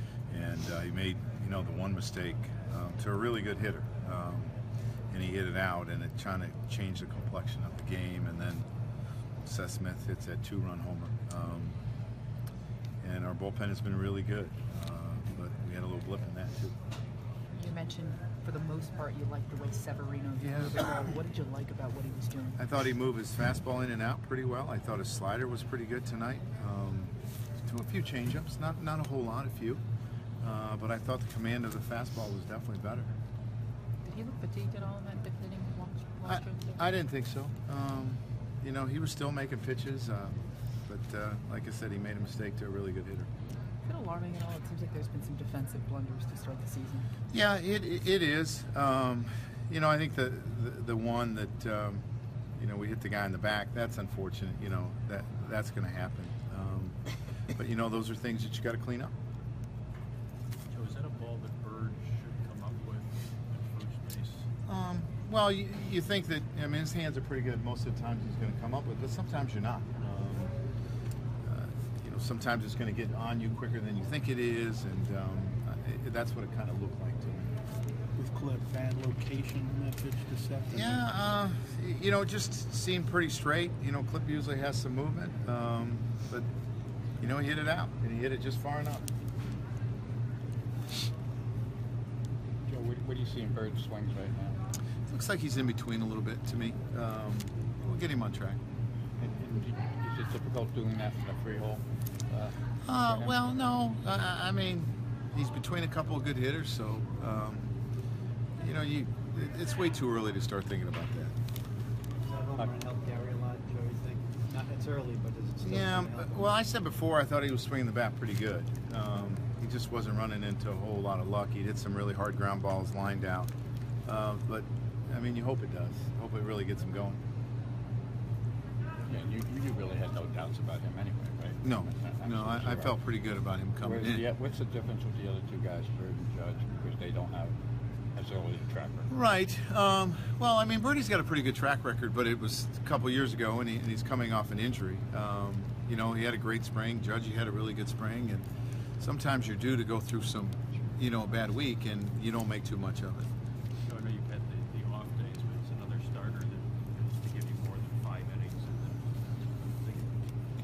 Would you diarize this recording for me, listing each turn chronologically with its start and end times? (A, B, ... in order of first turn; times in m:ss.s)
0:00.3-0:04.5 A
0:05.1-0:08.7 A
0:09.4-0:11.8 A
0:13.0-0:16.8 A
0:17.5-0:22.6 B
0:20.4-0:20.8 A
0:22.6-0:29.8 A
0:30.4-0:33.1 A
0:34.0-0:36.9 B
0:36.2-0:43.3 A
0:43.8-0:47.1 B
0:47.3-0:52.0 A
0:52.6-0:57.0 A
0:57.5-0:59.1 A
1:00.7-1:04.5 C
1:04.7-1:10.5 A
1:11.4-1:17.5 A
1:18.2-1:21.0 D
1:20.7-1:26.4 A
1:27.2-1:29.0 A
1:32.7-1:34.6 E
1:35.1-1:38.6 A
1:39.2-1:43.4 E
1:42.8-1:47.7 A
1:48.6-1:51.3 A
1:52.2-1:56.5 F
1:55.6-2:03.5 A
2:04.0-2:07.2 A
2:09.1-2:12.9 E
2:11.6-2:14.2 A
2:13.8-2:17.5 E
2:18.1-2:19.1 E
2:19.1-2:28.5 A
2:29.0-2:33.3 A
2:33.8-2:40.2 C